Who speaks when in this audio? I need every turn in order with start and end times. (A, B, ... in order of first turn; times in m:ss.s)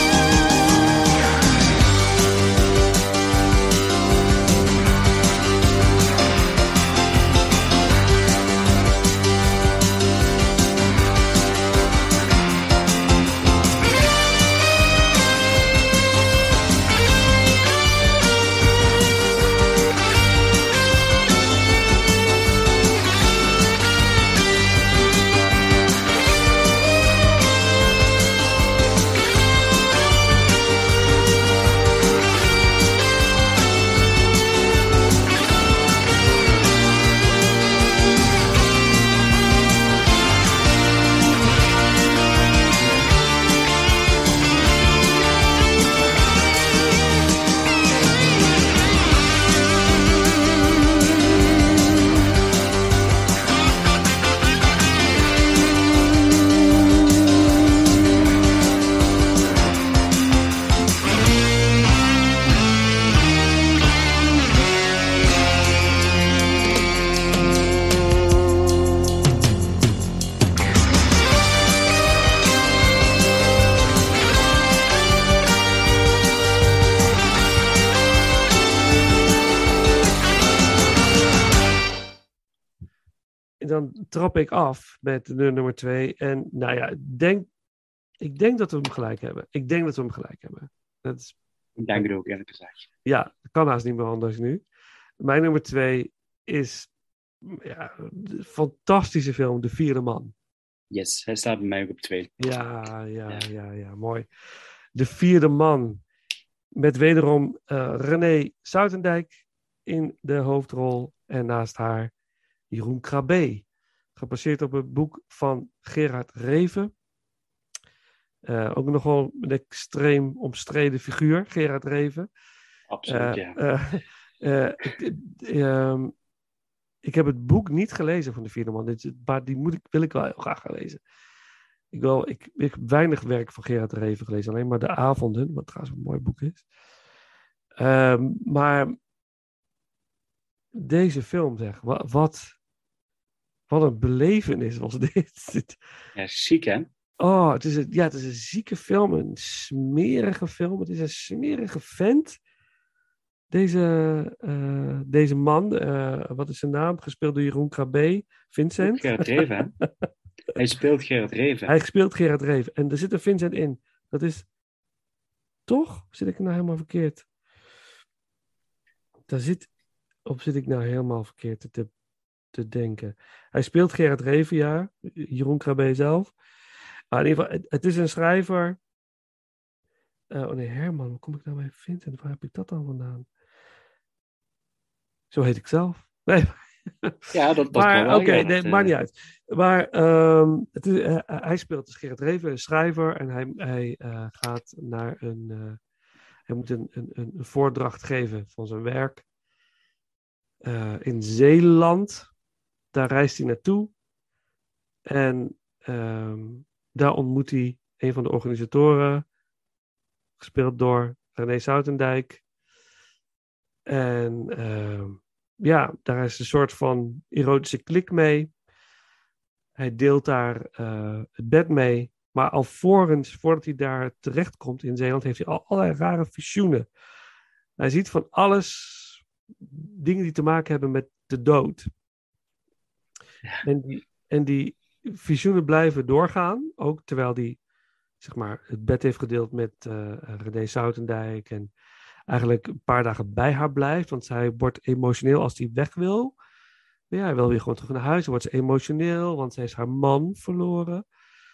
1:23.6-1:27.5 A
1:28.2-1:31.4 A
1:31.8-1:32.9 B
1:33.0-1:34.6 A
1:35.2-1:36.9 A
1:37.4-1:40.3 A
1:40.9-1:42.3 B
1:42.4-1:44.3 A
1:44.9-1:46.0 A
1:46.8-1:52.1 A
1:52.7-1:53.6 A
1:54.2-1:56.9 A
1:58.4-2:02.3 A
2:02.9-2:03.6 B
2:03.1-2:06.1 A
2:07.0-2:11.0 A
2:11.9-2:16.6 A
2:17.8-2:19.0 A
2:20.7-2:22.6 A
2:23.7-2:25.8 A
2:26.2-2:26.9 B
2:27.2-2:32.4 A
2:33.5-2:39.9 A
2:38.8-2:39.7 B
2:40.6-2:41.7 B
2:41.7-2:44.5 A
2:45.7-2:47.2 A
2:49.3-2:49.7 A
2:50.3-2:51.9 A
2:52.5-2:56.3 A
2:57.1-2:58.8 A
3:00.3-3:03.3 A
3:05.3-3:15.8 A
3:07.3-3:08.9 B
3:16.5-3:19.2 A
3:20.6-3:22.3 A
3:22.9-3:23.9 A
3:25.1-3:29.2 A
3:30.4-3:32.4 A
3:33.9-3:38.5 A
3:39.8-3:46.9 A
3:47.8-3:51.9 A
3:53.6-3:57.6 A
3:58.2-4:01.7 A
4:02.3-4:06.4 A
4:07.1-4:11.0 A